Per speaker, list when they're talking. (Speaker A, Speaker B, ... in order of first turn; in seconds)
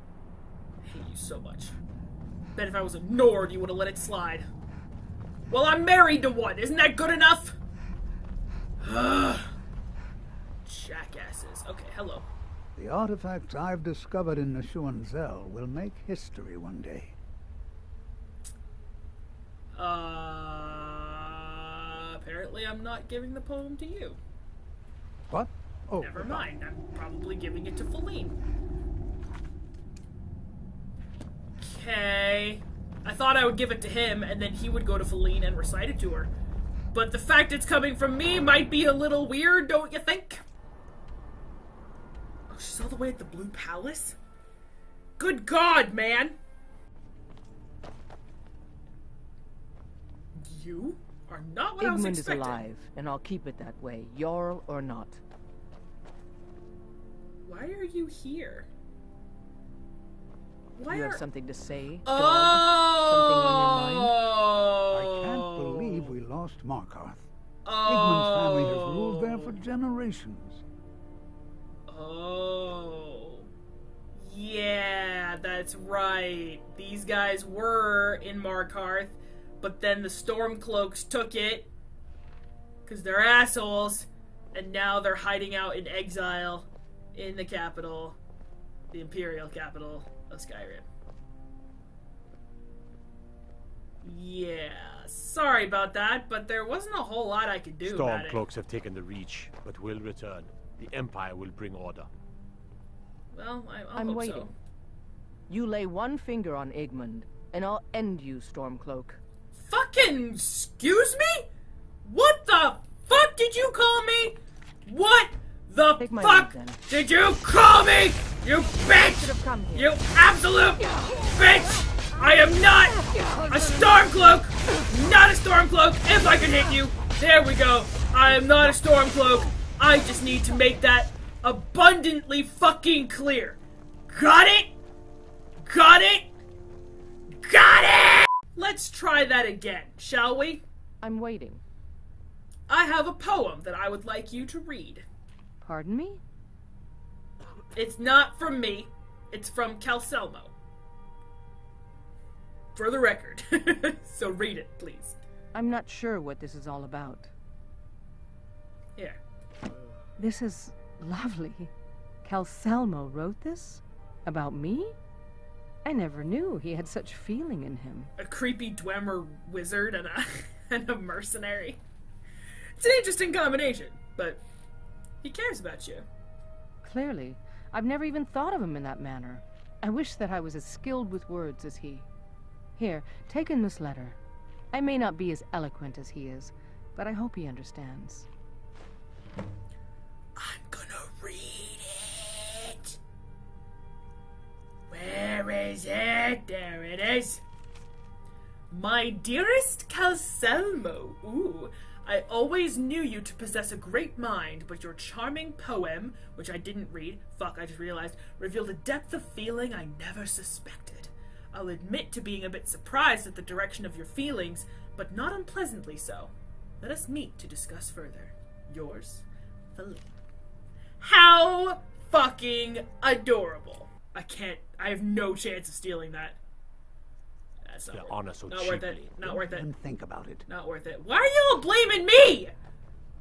Speaker A: 0.8-1.8, 2.6-4.5, 5.5-7.6, 8.8-9.5, 10.7-12.3, 19.7-24.2, 26.0-28.4, 31.6-36.3, 36.9-40.4, 42.5-44.2, 45.2-46.4, 50.4-52.6, 57.5-58.7, 60.8-61.2, 62.0-66.1, 67.7-69.6, 71.9-73.5, 74.2-81.7, 82.9-88.2, 88.9-90.9, 94.0-98.5, 103.3-104.5, 109.5-111.5, 112.0-134.7, 135.7-136.3, 137.4-140.6, 142.7-145.1, 147.8-150.5, 152.8-155.2, 168.2-171.8, 172.8-174.4, 175.2-176.1, 190.4-193.0, 194.9-197.4, 198.7-220.1, 221.0-226.4, 227.7-229.7, 230.5-232.5
Speaker B: 12.8-17.1, 25.3-26.5, 64.9-67.3, 67.8-70.6, 229.2-230.5
Speaker C: 51.8-55.2, 60.9-64.2, 103.9-104.5, 105.5-109.2, 116.0-116.8, 118.7-120.0, 120.8-121.3, 122.9-124.1, 141.0-141.6, 145.6-146.2, 155.5-157.3, 160.2-161.7, 162.2-165.0, 165.8-168.1, 176.8-182.1, 182.8-184.2, 184.7-188.3
Speaker D: 97.8-102.1, 227.9-229.2